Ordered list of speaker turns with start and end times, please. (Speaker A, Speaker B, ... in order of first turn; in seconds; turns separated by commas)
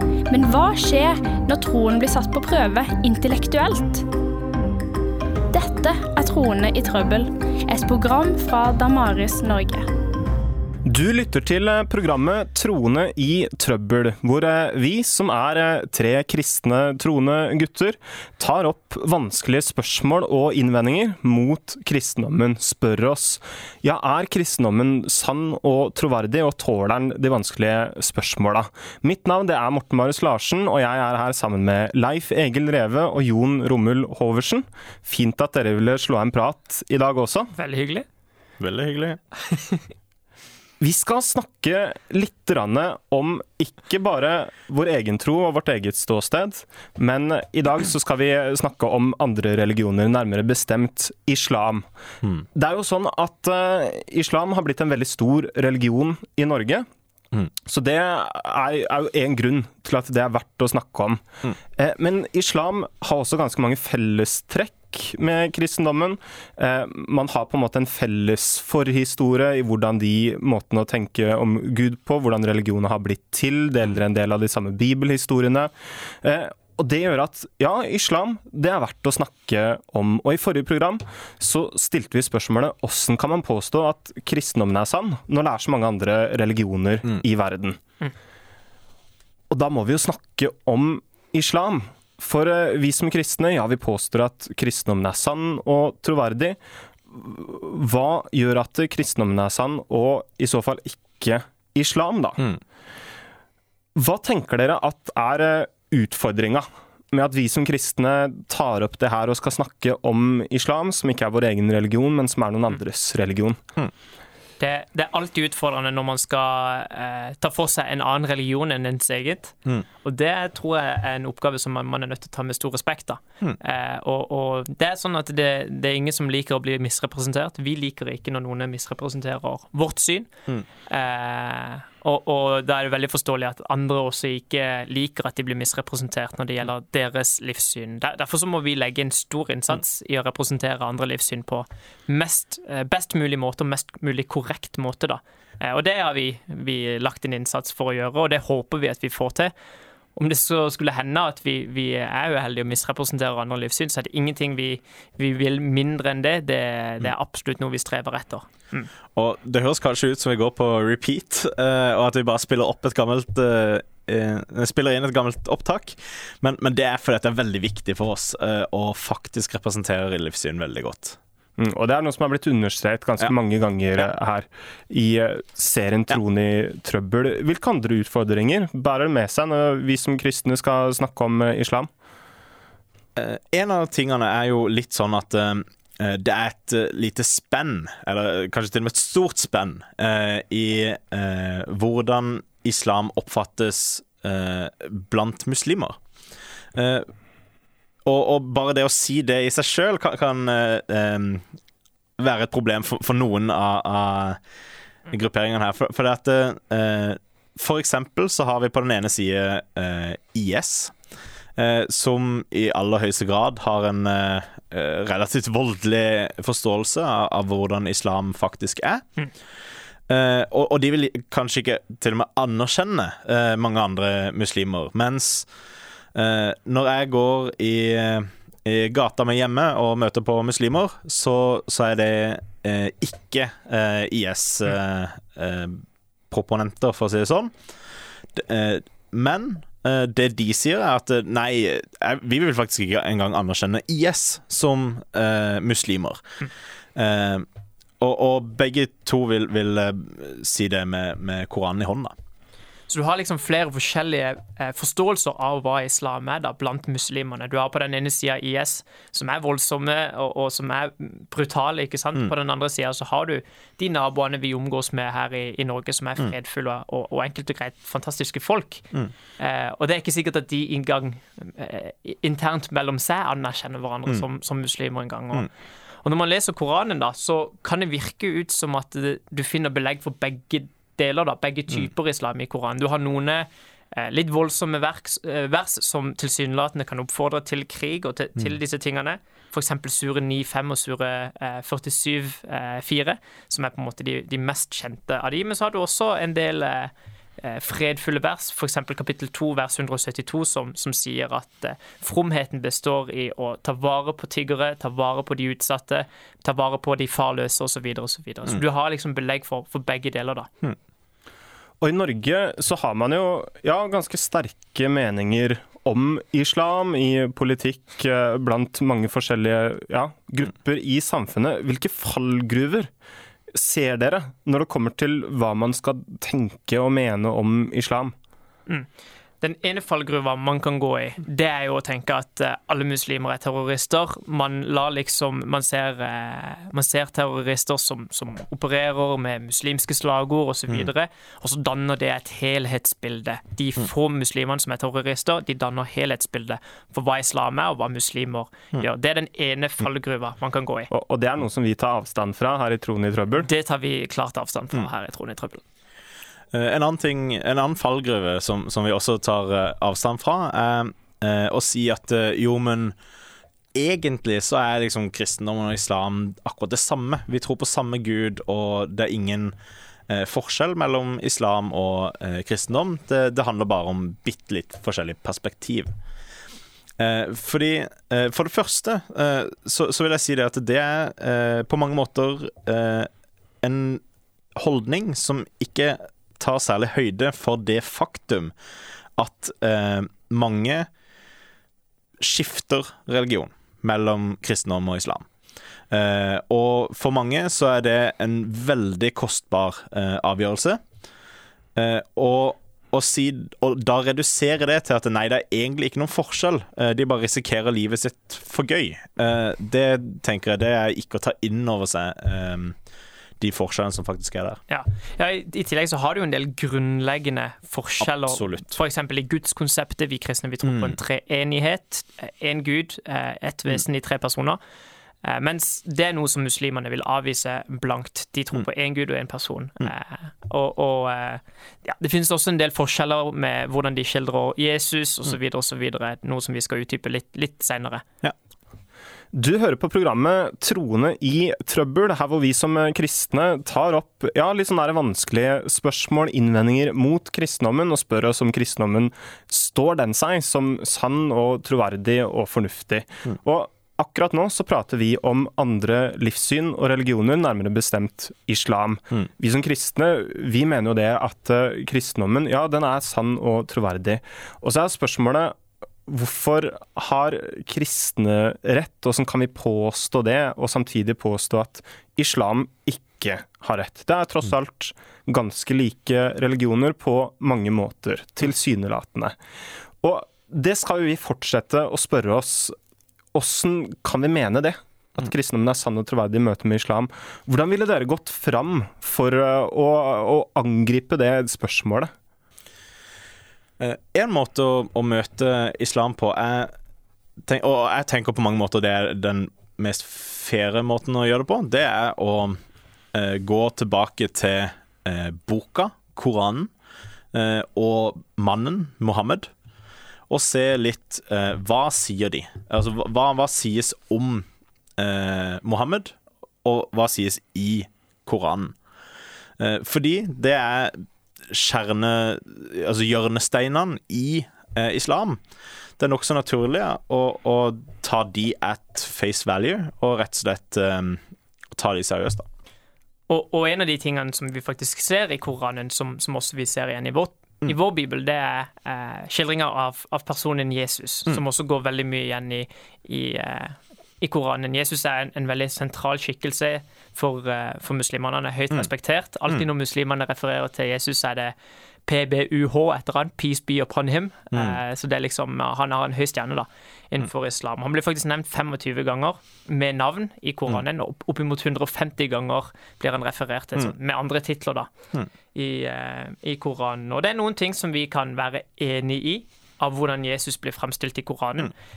Speaker A: 0.3-4.0, Speaker A: 5.5-9.8, Speaker B: 10.8-37.5, Speaker C: 37.5-38.0, Speaker D: 38.6-39.2, Speaker B: 40.8-51.8, Speaker B: 52.5-56.9, Speaker B: 57.6-61.2, Speaker B: 61.8-75.7, Speaker B: 76.2-87.8, Speaker B: 89.5-96.6, Speaker B: 97.1-102.5, Speaker B: 104.0-113.6, Speaker C: 114.6-130.3, Speaker C: 130.9-149.5, Speaker C: 150.2-158.9, Speaker D: 159.1-171.2, Speaker B: 171.6-181.9, Speaker D: 183.2-196.0, Speaker D: 196.7-197.1, Speaker D: 198.0-201.5, Speaker D: 202.2-204.4, Speaker D: 205.1-210.9, Speaker D: 211.6-219.1, Speaker D: 220.1-225.5, Speaker D: 226.1-237.5, Speaker D: 238.3-246.2, Speaker D: 246.9-247.5, Speaker D: 248.0-252.1, Speaker C: 252.9-275.5, Speaker C: 276.0-310.5, Speaker B: 311.8-322.9, Speaker B: 323.5-328.1, Speaker C: 329.4-350.9, Speaker B: 350.9-353.5, Speaker C: 353.4-355.6, Speaker D: 356.5-362.9, Speaker D: 363.7-369.6, Speaker D: 370.1-375.9, Speaker D: 377.0-383.1, Speaker D: 383.6-384.0, Speaker D: 384.6-388.5, Speaker D: 389.2-390.9, Speaker D: 392.2-395.2, Speaker D: 395.9-400.8, Speaker D: 401.8-412.8, Speaker D: 413.4-414.6, Speaker C: 414.7-424.6, Speaker D: 418.1-418.7, Speaker C: 425.2-438.0, Speaker B: 439.3-465.5, Speaker B: 466.1-479.4, Speaker B: 480.0-482.7, Speaker B: 483.3-492.1, Speaker D: 493.8-496.7, Speaker D: 497.4-502.6, Speaker D: 503.1-506.7, Speaker D: 507.3-509.5, Speaker D: 510.3-514.5, Speaker D: 515.0-518.8, Speaker D: 519.6-525.4, Speaker D: 526.0-531.2, Speaker D: 531.7-532.5, Speaker C: 533.3-551.5, Speaker C: 552.1-564.9, Speaker C: 565.5-571.7